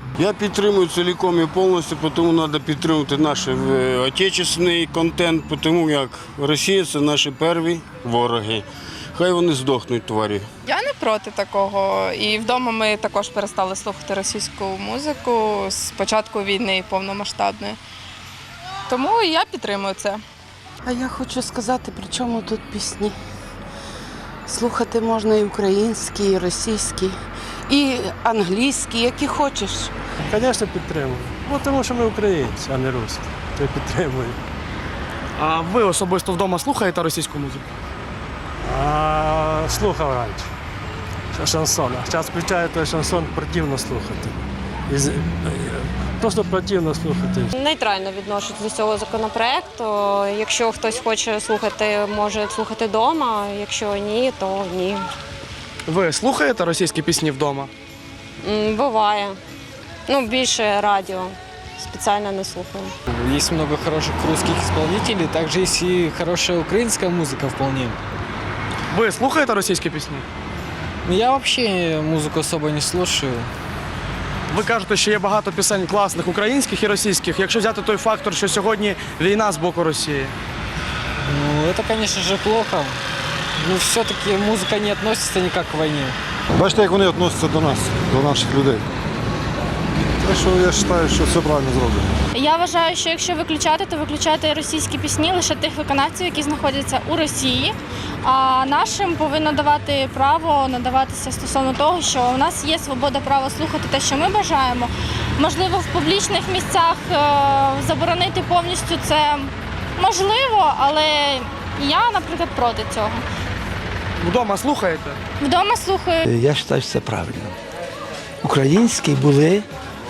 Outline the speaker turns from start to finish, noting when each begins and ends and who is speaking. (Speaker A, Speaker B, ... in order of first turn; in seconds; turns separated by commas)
Speaker A: 0.2-10.5, Speaker B: 10.6-17.8, Speaker B: 18.9-20.2, Speaker C: 20.8-23.1, Speaker C: 24.5-27.1, Speaker C: 27.7-29.9, Speaker D: 30.3-34.4, Speaker E: 35.4-37.6, Speaker D: 38.6-40.5, Speaker D: 41.3-44.4, Speaker D: 44.9-47.5, Speaker F: 47.5-55.0, Speaker E: 55.9-57.7, Speaker F: 58.4-59.4, Speaker F: 60.1-62.9, Speaker G: 63.1-68.0, Speaker E: 68.9-70.2, Speaker G: 71.0-73.5, Speaker E: 74.5-80.3, Speaker G: 81.2-83.0, Speaker G: 83.6-86.2, Speaker H: 86.5-88.8, Speaker H: 90.2-92.1, Speaker I: 92.3-113.2, Speaker E: 114.2-115.2, Speaker I: 115.4-116.2, Speaker J: 116.3-117.5, Speaker J: 118.4-119.6